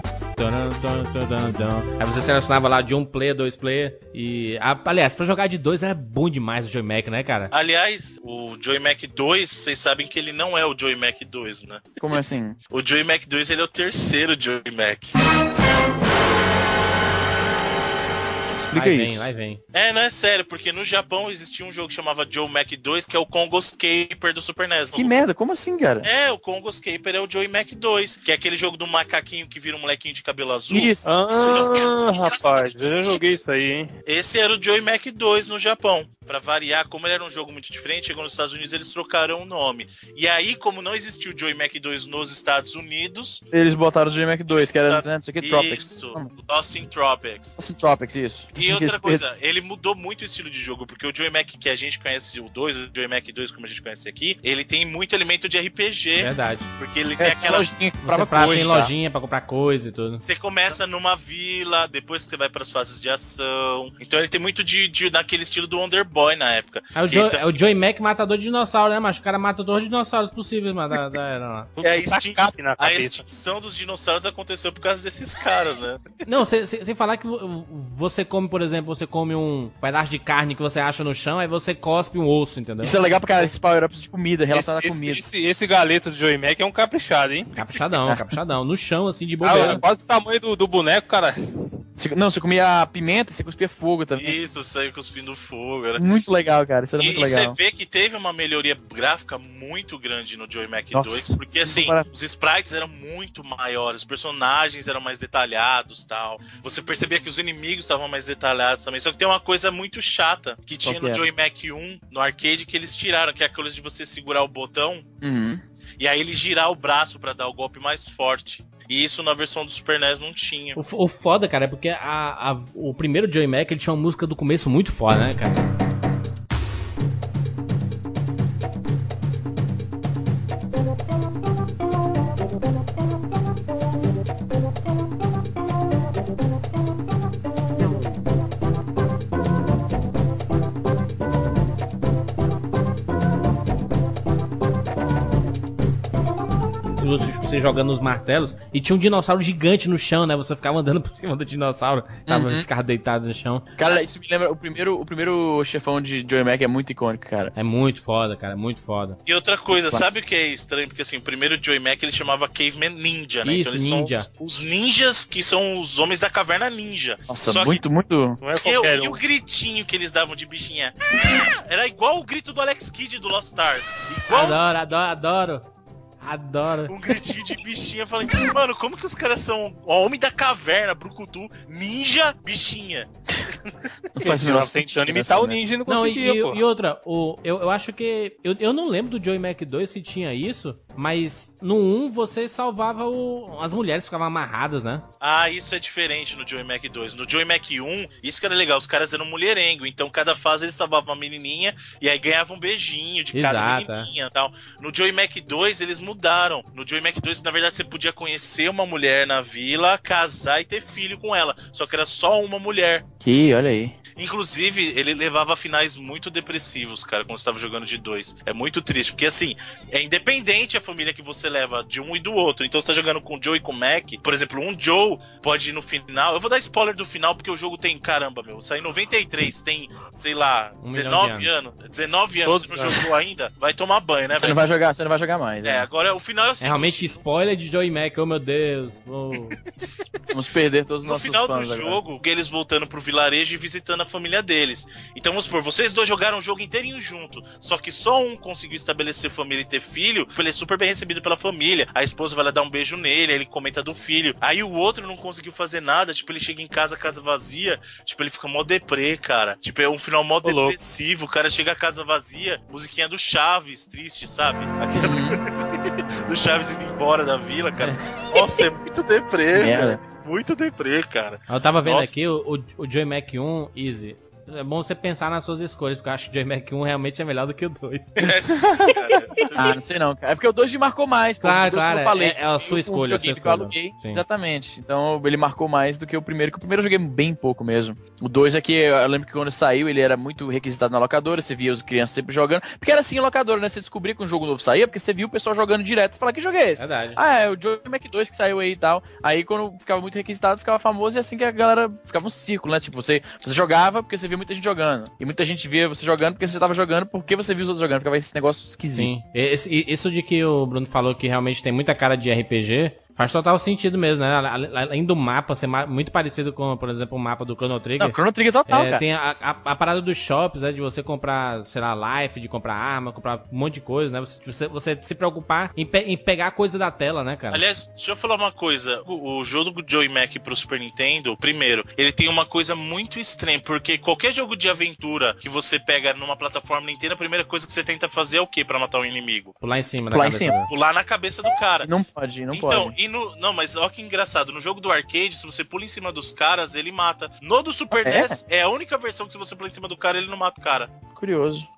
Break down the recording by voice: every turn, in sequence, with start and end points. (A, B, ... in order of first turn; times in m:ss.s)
0:00.4-0:07.5 A
0:07.5-0:12.0 B
0:12.0-0:12.6 C
0:12.7-0:15.2 B
0:18.5-0:19.3 C
0:18.7-0:19.6 A
0:19.7-0:25.2 B
0:24.9-0:26.1 C
0:26.0-0:32.8 B
0:30.7-0:31.7 C
0:31.0-0:33.9 D
0:34.0-0:43.4 B
0:43.5-0:46.3 C
0:44.5-0:47.6 B
0:47.6-0:49.2 C
0:48.5-0:57.7 B
0:56.2-0:56.7 A
0:57.2-0:58.9 C
0:58.0-1:00.2 A
1:00.2-1:07.4 B
1:06.9-1:11.7 A
1:11.8-1:13.2 D
1:11.8-1:16.0 B
1:16.2-1:23.0 A
1:22.8-1:25.2 C
1:24.5-1:27.5 D
1:27.5-1:29.8 A
1:28.0-1:28.3 C
1:29.4-1:31.4 D
1:29.5-1:29.8 C
1:32.0-1:34.4 C
1:34.2-1:36.1 B
1:36.0-1:37.6 C
1:37.0-1:55.1 B
1:40.9-1:42.1 C
1:50.8-1:51.2 C
1:55.2-1:55.6 C
1:56.0-2:00.8 B
2:00.8-2:05.7 A
2:26.8-2:33.6 A
2:32.3-2:32.7 C
2:33.8-2:37.5 C
2:37.5-2:39.2 A
2:39.2-2:47.8 B
2:39.7-2:40.1 C
2:43.4-2:44.3 A
2:47.3-2:48.4 C
2:48.4-2:49.2 D
2:48.6-2:54.7 B
2:54.3-2:55.6 A
2:56.2-2:56.9 A
2:56.9-3:03.7 B
3:04.2-3:05.6 C
3:04.2-3:06.6 D
3:05.9-3:15.0 A
3:15.2-3:33.0 B
3:23.3-3:24.1 A
3:33.2-3:34.0 C
3:34.2-3:54.6 B
3:50.8-3:51.5 A
3:52.5-3:52.9 D
3:52.5-3:53.0 C
3:54.3-3:55.9 C
3:55.6-3:57.2 B
3:56.6-3:59.6 A
4:00.3-4:02.0 C
4:01.0-4:32.1 B
4:20.4-4:20.7 C
4:25.0-4:25.4 C
4:27.8-4:28.1 A
4:29.5-4:30.0 C
4:31.5-4:38.3 A
4:38.2-4:39.6 B
4:38.6-4:38.9 C
4:39.5-5:09.1 C
4:41.4-4:44.2 A
4:56.8-4:57.2 A
5:08.9-5:27.6 A
5:18.0-5:19.0 C
5:27.5-5:39.6 B
5:39.6-5:40.7 A
5:40.1-5:40.6 C
5:40.7-5:41.9 B
5:41.8-5:43.0 C
5:42.5-5:50.9 B
5:47.9-5:48.4 C
5:51.1-5:51.7 C